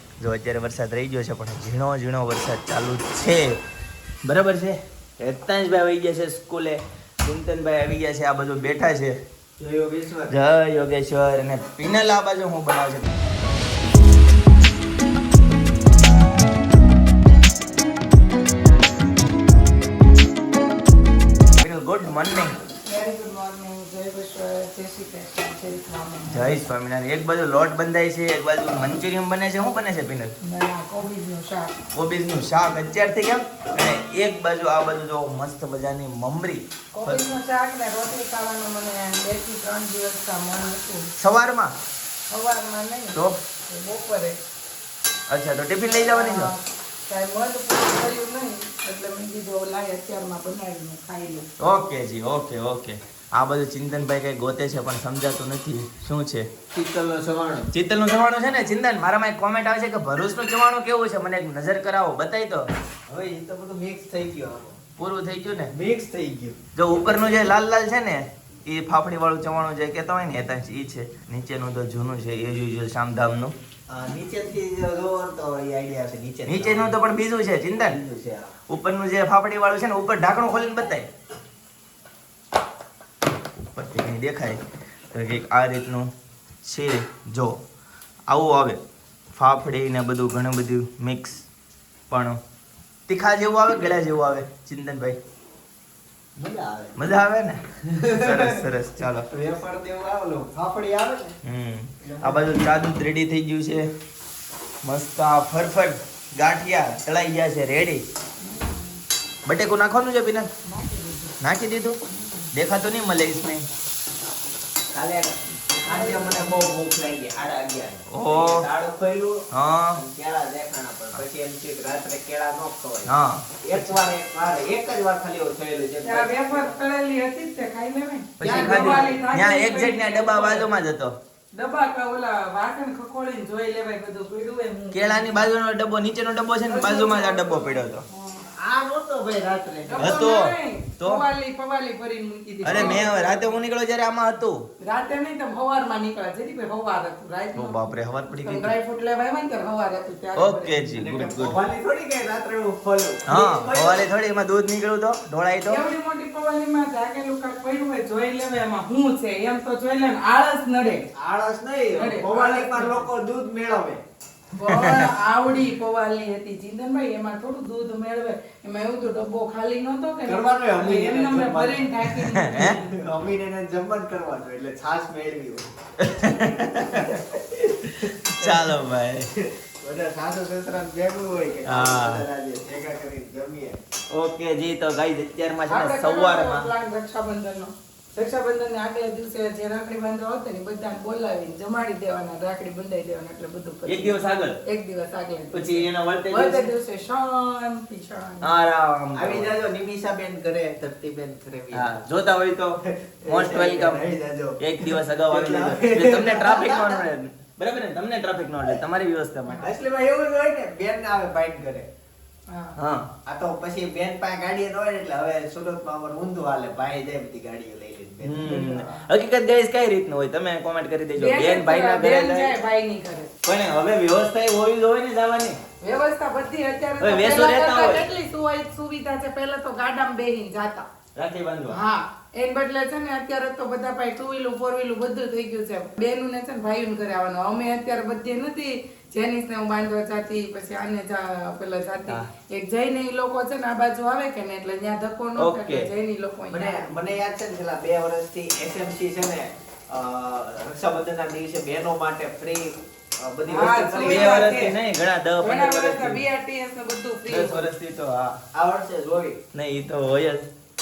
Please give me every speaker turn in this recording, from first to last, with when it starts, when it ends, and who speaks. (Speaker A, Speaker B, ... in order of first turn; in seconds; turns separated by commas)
Speaker A: 0.2-3.6, Speaker A: 4.2-9.2, Speaker B: 9.6-10.4, Speaker A: 10.3-13.2, Speaker A: 21.6-22.6, Speaker C: 22.9-26.6, Speaker A: 26.3-30.3, Speaker C: 30.4-31.7, Speaker A: 31.9-37.2, Speaker C: 36.9-41.1, Speaker A: 41.2-41.7, Speaker C: 42.3-44.4, Speaker A: 45.3-46.5, Speaker C: 46.0-51.5, Speaker A: 51.6-56.5, Speaker B: 56.7-57.7, Speaker A: 57.7-62.7, Speaker B: 63.1-64.8, Speaker A: 65.0-65.7, Speaker B: 65.7-66.6, Speaker A: 66.8-73.5, Speaker B: 73.9-77.0, Speaker A: 76.5-78.0, Speaker B: 77.7-78.5, Speaker A: 78.7-81.1, Speaker A: 83.6-84.6, Speaker A: 85.1-86.1, Speaker A: 86.6-87.6, Speaker A: 88.3-88.8, Speaker A: 89.3-91.5, Speaker A: 92.1-92.4, Speaker A: 93.1-95.2, Speaker B: 96.3-97.0, Speaker A: 97.0-99.3, Speaker B: 97.8-101.4, Speaker A: 101.4-103.9, Speaker B: 102.0-102.6, Speaker A: 104.8-108.0, Speaker C: 108.4-109.0, Speaker A: 109.5-110.5, Speaker C: 110.6-111.3, Speaker A: 111.4-112.0, Speaker C: 112.1-112.5, Speaker A: 112.5-113.7, Speaker B: 114.9-126.8, Speaker C: 115.8-116.7, Speaker A: 118.1-118.7, Speaker A: 119.5-120.0, Speaker A: 123.0-124.0, Speaker C: 126.0-130.7, Speaker A: 128.4-131.2, Speaker B: 128.4-129.2, Speaker C: 131.5-135.5, Speaker A: 134.9-138.0, Speaker C: 136.7-138.4, Speaker B: 138.6-140.2, Speaker C: 139.9-143.5, Speaker A: 140.0-141.2, Speaker B: 142.6-143.1, Speaker A: 142.6-144.6, Speaker C: 144.8-147.8, Speaker A: 147.5-148.7, Speaker C: 148.4-151.2, Speaker A: 150.3-151.6, Speaker B: 151.0-154.1, Speaker A: 153.3-155.8, Speaker C: 155.7-161.1, Speaker B: 161.1-164.0, Speaker C: 161.9-163.1, Speaker C: 164.6-172.9, Speaker A: 164.6-165.1, Speaker B: 170.2-171.9, Speaker A: 172.2-172.8, Speaker B: 172.5-175.7, Speaker A: 176.0-177.2, Speaker B: 176.9-177.2, Speaker A: 177.8-179.3, Speaker B: 178.0-178.8, Speaker B: 179.3-183.8, Speaker A: 181.7-182.2, Speaker A: 184.1-186.7, Speaker C: 185.7-198.6, Speaker A: 193.8-194.6, Speaker A: 195.5-196.7, Speaker A: 198.4-199.5, Speaker B: 199.1-201.9, Speaker A: 201.7-202.8, Speaker B: 202.8-207.1, Speaker A: 203.3-204.0, Speaker A: 204.6-209.7, Speaker B: 209.6-211.9, Speaker C: 212.5-212.7, Speaker A: 212.8-213.1, Speaker B: 213.2-218.6, Speaker A: 218.2-222.5, Speaker C: 218.4-219.0, Speaker C: 221.2-223.3, Speaker A: 223.4-225.6, Speaker C: 225.8-230.8, Speaker A: 227.0-228.0, Speaker A: 231.2-231.8, Speaker C: 231.7-246.9, Speaker A: 245.4-245.9, Speaker B: 246.5-254.7, Speaker C: 253.5-254.8, Speaker A: 254.0-256.2, Speaker C: 255.4-257.7, Speaker A: 257.3-258.4, Speaker B: 258.5-259.4, Speaker A: 259.5-260.5